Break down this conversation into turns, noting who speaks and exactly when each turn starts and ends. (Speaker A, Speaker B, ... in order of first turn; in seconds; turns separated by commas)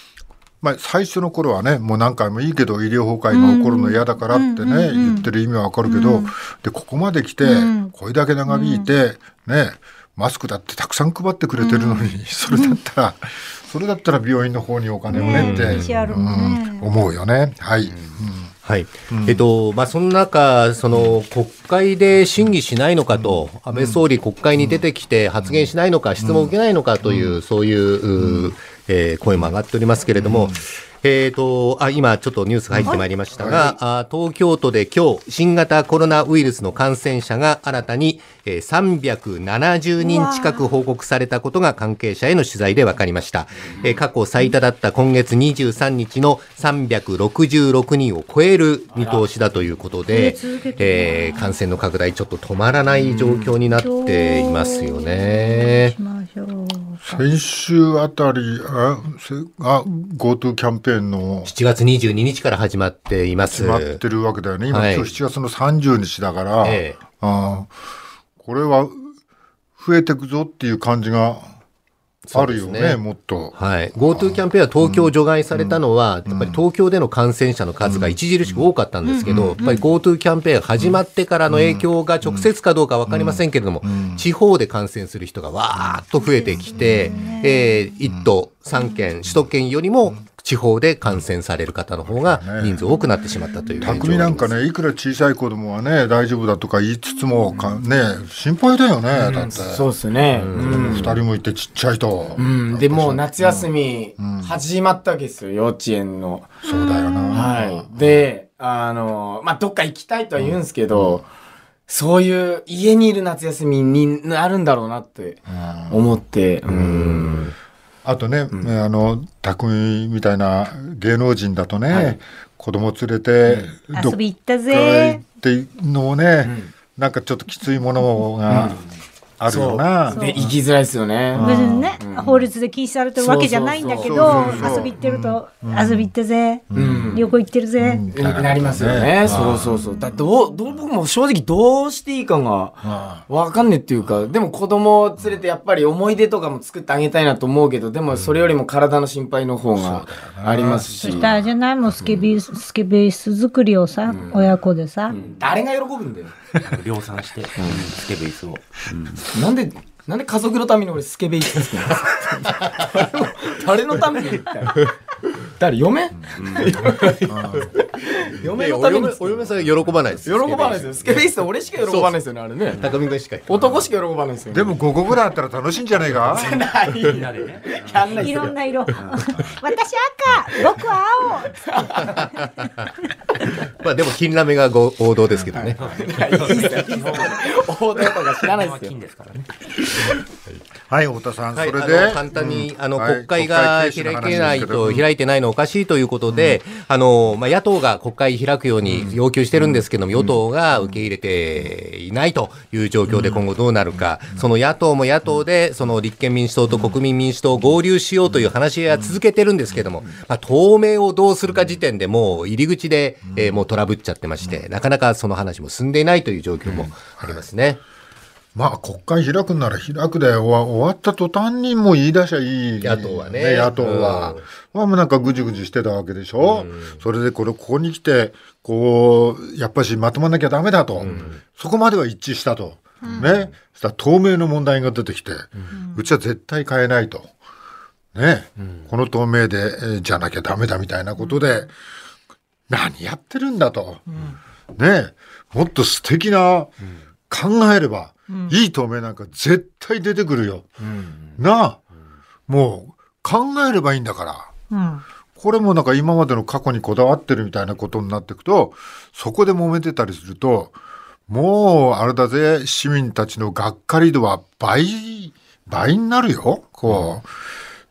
Speaker A: 0.6-18.5, Speaker B: 3.3-5.3, Speaker B: 5.8-6.3, Speaker B: 7.4-7.9, Speaker B: 8.5-8.9, Speaker B: 11.6-12.8, Speaker C: 15.1-16.1, Speaker B: 15.1-16.9, Speaker C: 18.6-55.9, Speaker A: 19.1-19.4, Speaker A: 23.2-24.0, Speaker A: 26.2-26.5, Speaker A: 27.0-27.4, Speaker A: 28.2-28.5, Speaker A: 30.2-30.6, Speaker A: 32.7-33.8, Speaker B: 40.0-40.7, Speaker B: 50.1-51.6, Speaker D: 53.0-53.5, Speaker B: 53.7-57.2, Speaker A: 57.0-61.5, Speaker C: 61.4-64.0, Speaker A: 63.5-67.7, Speaker C: 64.7-65.1, Speaker C: 66.6-67.0, Speaker A: 68.4-69.1, Speaker A: 69.8-71.5, Speaker C: 72.3-73.0, Speaker A: 72.3-76.6, Speaker C: 73.5-94.6, Speaker A: 77.8-78.7, Speaker B: 79.0-79.8, Speaker A: 79.2-79.8, Speaker A: 80.8-82.5, Speaker A: 83.1-84.2, Speaker B: 86.2-87.9, Speaker A: 86.5-87.4, Speaker B: 88.8-89.0, Speaker A: 92.0-92.8, Speaker B: 92.8-93.9, Speaker A: 93.8-99.9, Speaker B: 97.2-97.5, Speaker D: 99.1-101.2, Speaker C: 100.4-101.2, Speaker A: 100.5-104.5, Speaker D: 102.4-106.6, Speaker A: 106.6-108.0, Speaker B: 106.6-107.5, Speaker D: 107.3-111.2, Speaker A: 110.9-111.2, Speaker D: 111.9-117.5, Speaker A: 115.5-116.0, Speaker A: 118.0-124.2, Speaker D: 121.9-122.2, Speaker B: 123.9-125.2, Speaker A: 124.7-128.8, Speaker D: 126.4-126.7, Speaker D: 128.5-128.8, Speaker A: 129.4-130.6, Speaker D: 129.4-132.4, Speaker B: 130.1-130.4, Speaker A: 131.3-132.0, Speaker B: 131.3-138.0, Speaker D: 133.1-134.9, Speaker A: 134.0-136.1, Speaker A: 136.7-137.2, Speaker D: 136.7-137.3, Speaker A: 137.8-139.8, Speaker D: 138.1-151.3, Speaker B: 139.7-140.2, Speaker A: 142.8-143.2, Speaker A: 149.8-151.4, Speaker B: 151.0-155.2, Speaker D: 152.0-152.2, Speaker D: 154.1-154.5, Speaker D: 155.1-156.3, Speaker E: 156.6-159.3, Speaker D: 157.6-157.9, Speaker D: 159.3-164.9, Speaker D: 165.6-169.3, Speaker E: 166.3-166.9, Speaker A: 167.3-167.7, Speaker C: 168.4-171.3, Speaker D: 170.2-172.9, Speaker C: 171.8-172.1, Speaker C: 172.7-173.8, Speaker D: 173.4-174.8, Speaker A: 174.5-176.6, Speaker D: 176.3-178.5, Speaker E: 177.0-178.3, Speaker B: 178.2-181.6, Speaker D: 181.6-182.3, Speaker C: 183.6-185.8, Speaker D: 185.5-188.9, Speaker E: 185.8-187.5, Speaker E: 188.4-189.5, Speaker A: 190.9-195.0, Speaker C: 191.5-217.8, Speaker A: 203.1-203.4, Speaker A: 216.6-217.4, Speaker A: 218.5-237.3, Speaker C: 222.8-224.4, Speaker C: 226.4-227.0, Speaker D: 231.0-231.3, Speaker C: 231.0-231.3, Speaker D: 233.1-233.4, Speaker B: 235.7-236.1, Speaker A: 238.1-241.7, Speaker A: 242.7-244.1, Speaker A: 244.7-246.7, Speaker A: 247.3-250.8, Speaker B: 248.3-248.6, Speaker D: 250.8-251.3, Speaker A: 251.4-251.8, Speaker A: 252.5-254.5, Speaker B: 254.7-255.0, Speaker A: 255.4-260.7, Speaker A: 261.3-267.3